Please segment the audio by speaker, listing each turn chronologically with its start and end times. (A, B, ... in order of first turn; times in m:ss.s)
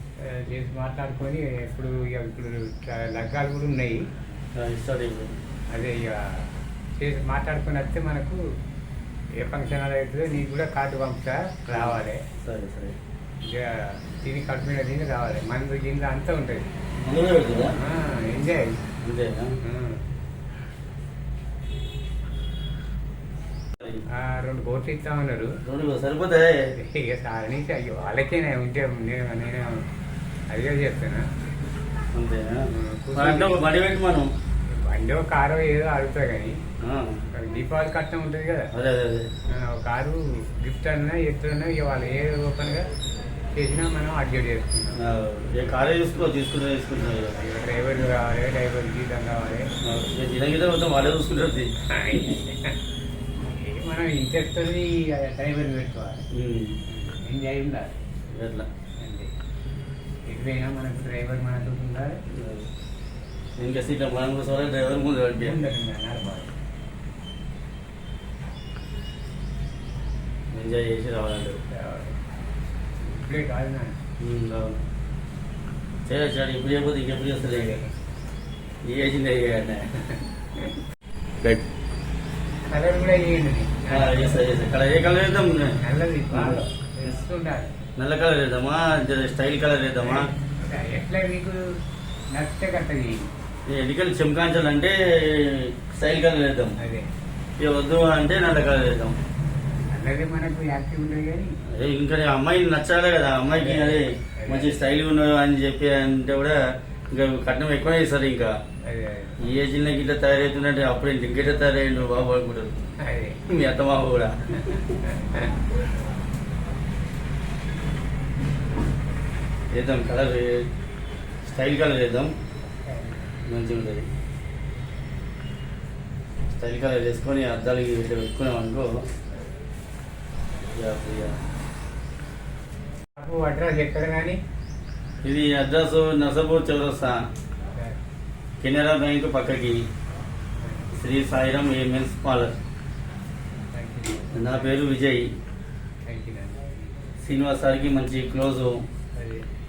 0:00.3-0:04.0 A
0:04.6-0:05.3 B
0:05.7-0:08.4 A
0:09.4-0:12.2 A
0:11.7-0:13.0 B
0:13.4-0:16.7 A
0:17.0-0:17.7 B
0:17.8-0:18.8 A
0:19.0-0:19.5 B
0:19.6-0:20.0 A
0:24.1-0:25.5 A
0:25.6-0:26.5 B
0:26.8-0:29.9 A
0:30.5-0:31.3 A
0:32.2-0:32.6 B
0:32.7-0:33.7 A
0:33.2-0:34.3 B
0:34.7-0:36.6 A
0:36.8-0:37.2 B
0:37.4-0:38.7 A
0:38.7-0:39.2 B
0:39.5-0:42.9 A
0:43.6-0:45.0 A
0:45.0-0:47.4 B
0:47.3-0:49.7 A
0:49.8-0:51.7 B
0:51.9-0:52.8 A
0:53.5-0:56.2 A
0:56.4-0:56.8 B
0:56.9-0:58.0 A
0:58.3-0:58.7 B
0:59.0-0:59.3 A
1:00.3-1:02.2 A
1:02.3-1:02.7 B
1:03.6-1:05.6 B
1:05.4-1:06.5 A
1:10.5-1:11.6 B
1:11.7-1:12.2 A
1:13.0-1:14.0 A
1:14.2-1:14.8 B
1:16.1-1:17.8 B
1:17.4-1:17.9 A
1:18.8-1:19.9 B
1:20.0-1:20.7 A
1:22.7-1:24.4 A
1:23.9-1:25.8 B
1:25.8-1:27.8 A
1:26.3-1:27.2 B
1:28.0-1:30.3 B
1:30.0-1:31.7 A
1:32.3-1:33.3 A
1:33.7-1:36.8 B
1:36.8-1:37.1 A
1:37.6-1:39.2 B
1:39.7-1:41.5 A
1:41.7-1:46.6 B
1:43.6-1:44.8 A
1:47.1-1:48.5 B
1:48.9-1:49.4 A
1:49.4-1:52.8 B
1:53.0-1:53.4 A
1:53.5-1:54.9 B
1:55.0-1:55.6 A
1:59.7-2:00.7 B
2:01.5-2:02.3 B
2:02.8-2:03.3 A
2:03.4-2:04.1 B
2:06.6-2:08.9 B
2:10.7-2:11.4 B
2:13.2-2:14.4 A
2:15.2-2:17.2 B
2:17.7-2:18.0 A
2:18.6-2:19.8 B
2:20.6-2:20.9 A
2:20.9-2:22.6 B
2:23.7-2:24.9 A
2:24.3-2:25.3 B
2:26.0-2:26.8 A
2:27.2-2:28.8 B
2:29.2-2:29.4 A